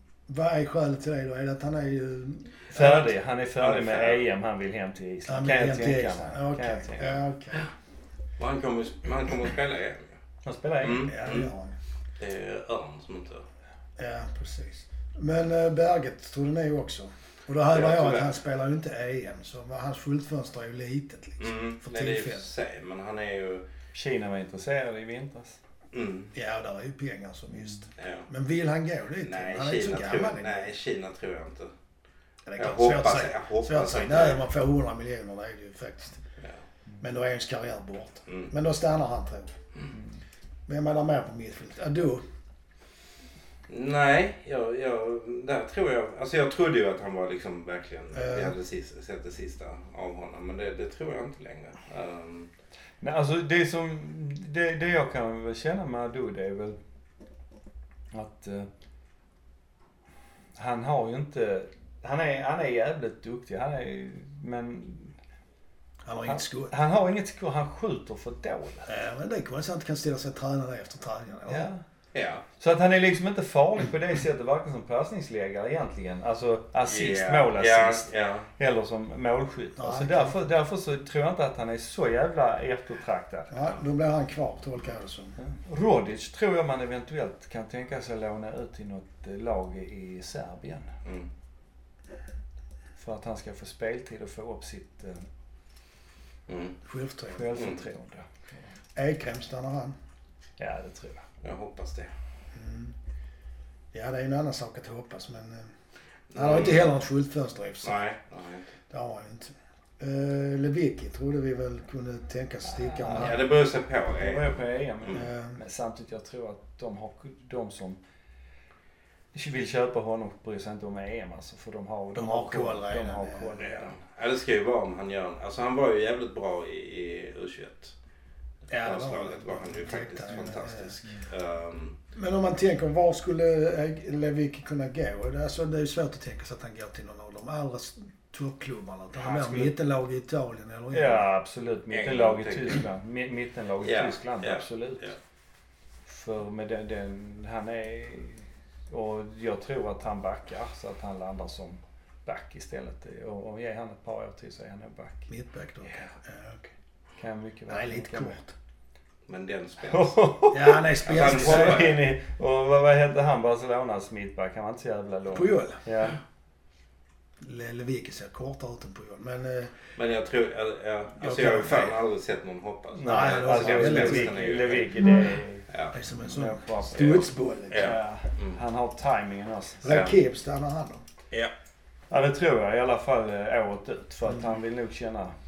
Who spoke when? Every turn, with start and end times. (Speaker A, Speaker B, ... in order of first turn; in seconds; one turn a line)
Speaker A: 0.3-3.1
Speaker B: 2.7-7.2
Speaker C: 3.6-4.2
Speaker A: 5.3-7.7
Speaker C: 8.4-10.1
Speaker B: 10.4-11.1
Speaker C: 10.8-11.5
Speaker A: 11.0-11.7
Speaker C: 12.2-13.4
Speaker A: 14.0-22.5
Speaker C: 17.7-18.3
Speaker C: 21.4-23.6
Speaker B: 23.9-25.6
Speaker C: 25.9-26.3
Speaker A: 26.3-30.7
Speaker C: 28.0-28.3
Speaker C: 29.2-31.7
Speaker A: 32.5-36.2
Speaker C: 32.6-34.4
Speaker A: 37.0-39.5
Speaker B: 39.9-40.2
Speaker A: 40.7-42.2
Speaker C: 43.7-52.5
Speaker A: 48.1-48.5
Speaker B: 53.0-56.8
Speaker B: 58.1-58.7
Speaker B: 60.5-65.2
Speaker A: 66.0-66.7
Speaker B: 66.2-68.8
Speaker A: 68.8-71.7
Speaker B: 71.5-71.8
Speaker C: 72.1-72.4
Speaker B: 72.6-83.5
Speaker C: 76.8-78.5
Speaker A: 79.8-80.5
Speaker A: 83.5-85.4
Speaker B: 85.4-91.0
Speaker B: 93.0-95.2
Speaker C: 96.5-96.8
Speaker A: 96.8-97.6
Speaker B: 97.3-98.6
Speaker C: 97.5-97.8
Speaker A: 99.0-100.0
Speaker B: 100.6-101.3
Speaker C: 101.4-102.1
Speaker A: 102.5-102.9
Speaker A: 103.9-105.7
Speaker C: 106.3-106.9
Speaker A: 106.3-108.0
Speaker C: 107.8-108.6
Speaker A: 108.9-113.5
Speaker B: 112.8-113.3
Speaker C: 113.1-114.5
Speaker B: 114.2-118.0
Speaker A: 115.1-115.6
Speaker B: 119.3-124.0
Speaker A: 122.1-123.6
Speaker C: 123.6-127.9
Speaker A: 128.7-131.2
Speaker C: 128.8-132.0
Speaker A: 132.1-141.2
Speaker B: 139.2-139.7
Speaker B: 140.9-145.1
Speaker C: 141.9-142.8
Speaker C: 143.8-145.2
Speaker B: 146.1-155.3
Speaker A: 155.3-156.7
Speaker B: 157.2-158.4
Speaker A: 157.7-158.5
Speaker C: 159.3-160.2
Speaker B: 159.9-166.2
Speaker A: 160.5-161.8
Speaker C: 161.0-162.0
Speaker A: 165.3-165.8
Speaker A: 167.4-169.7
Speaker C: 169.9-174.9
Speaker A: 171.2-172.0
Speaker B: 172.9-175.7
Speaker A: 173.0-175.4
Speaker A: 175.9-177.9
Speaker B: 176.2-179.8
Speaker C: 177.7-178.6
Speaker A: 179.8-181.0
Speaker C: 179.9-180.2
Speaker B: 182.1-185.3